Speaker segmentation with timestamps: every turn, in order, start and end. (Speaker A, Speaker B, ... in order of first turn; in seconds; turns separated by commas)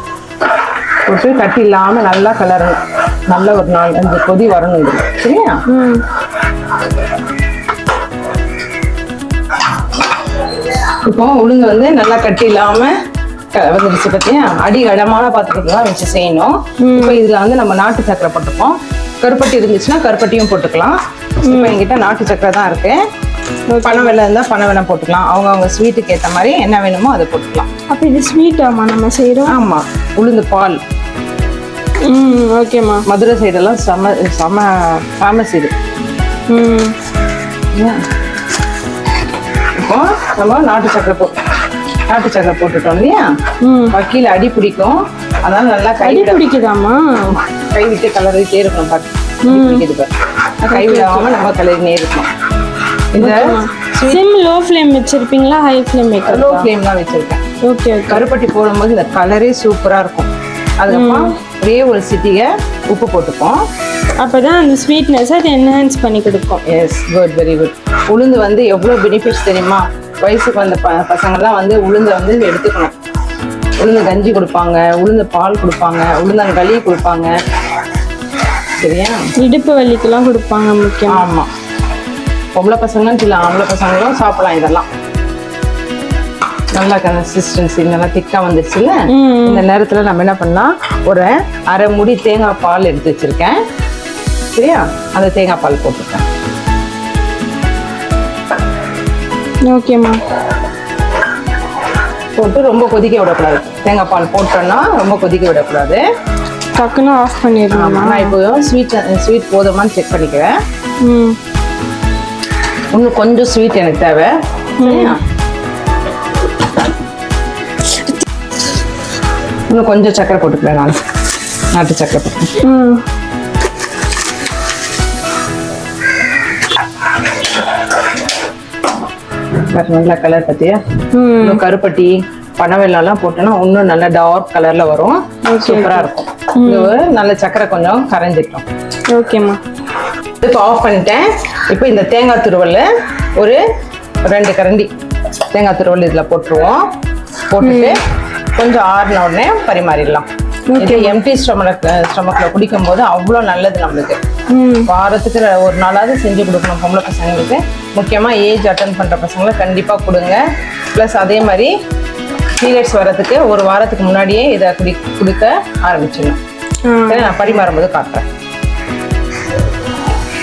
Speaker A: 1.1-5.6, Speaker B: 5.7-6.0, Speaker A: 11.0-12.9, Speaker A: 13.5-23.0, Speaker B: 16.8-17.2, Speaker B: 21.4-21.8, Speaker B: 23.7-24.1, Speaker A: 23.8-27.7, Speaker B: 27.9-29.6, Speaker A: 29.4-30.8, Speaker B: 32.0-33.0, Speaker A: 33.0-35.7, Speaker B: 36.5-36.9, Speaker A: 37.7-38.0, Speaker A: 39.7-41.3, Speaker A: 42.1-43.2, Speaker B: 43.6-44.0, Speaker A: 43.9-46.4, Speaker B: 46.0-47.4, Speaker A: 47.4-52.3, Speaker B: 49.5-49.8, Speaker B: 50.7-51.3, Speaker A: 53.1-54.2, Speaker B: 53.2-56.7, Speaker A: 56.3-57.4, Speaker B: 57.6-58.2, Speaker A: 58.1-63.6, Speaker B: 60.9-61.3, Speaker B: 64.2-66.6, Speaker A: 66.7-72.9, Speaker A: 73.8-77.3, Speaker A: 78.8-79.2, Speaker B: 79.4-81.2, Speaker A: 81.1-81.5, Speaker A: 82.5-84.9, Speaker A: 86.7-93.6, Speaker B: 89.1-89.6, Speaker A: 94.5-96.2, Speaker B: 99.7-100.2, Speaker A: 102.3-106.0, Speaker B: 106.7-108.3, Speaker A: 107.7-110.5, Speaker B: 111.0-111.4, Speaker A: 112.9-115.2, Speaker B: 114.8-115.2, Speaker A: 119.7-120.9, Speaker A: 121.7-122.5, Speaker B: 122.6-123.0, Speaker A: 129.7-130.8, Speaker B: 131.1-131.6, Speaker A: 131.4-138.6, Speaker B: 135.5-136.9, Speaker B: 139.1-139.6, Speaker A: 140.4-143.6, Speaker A: 144.2-144.9, Speaker A: 145.5-146.9, Speaker A: 147.5-148.0, Speaker B: 147.6-147.9, Speaker A: 148.6-150.3, Speaker B: 150.7-151.2, Speaker A: 150.8-154.2, Speaker B: 154.5-154.9, Speaker A: 154.9-160.4, Speaker A: 160.9-161.7, Speaker A: 162.6-166.4, Speaker B: 166.8-167.4, Speaker A: 167.1-168.2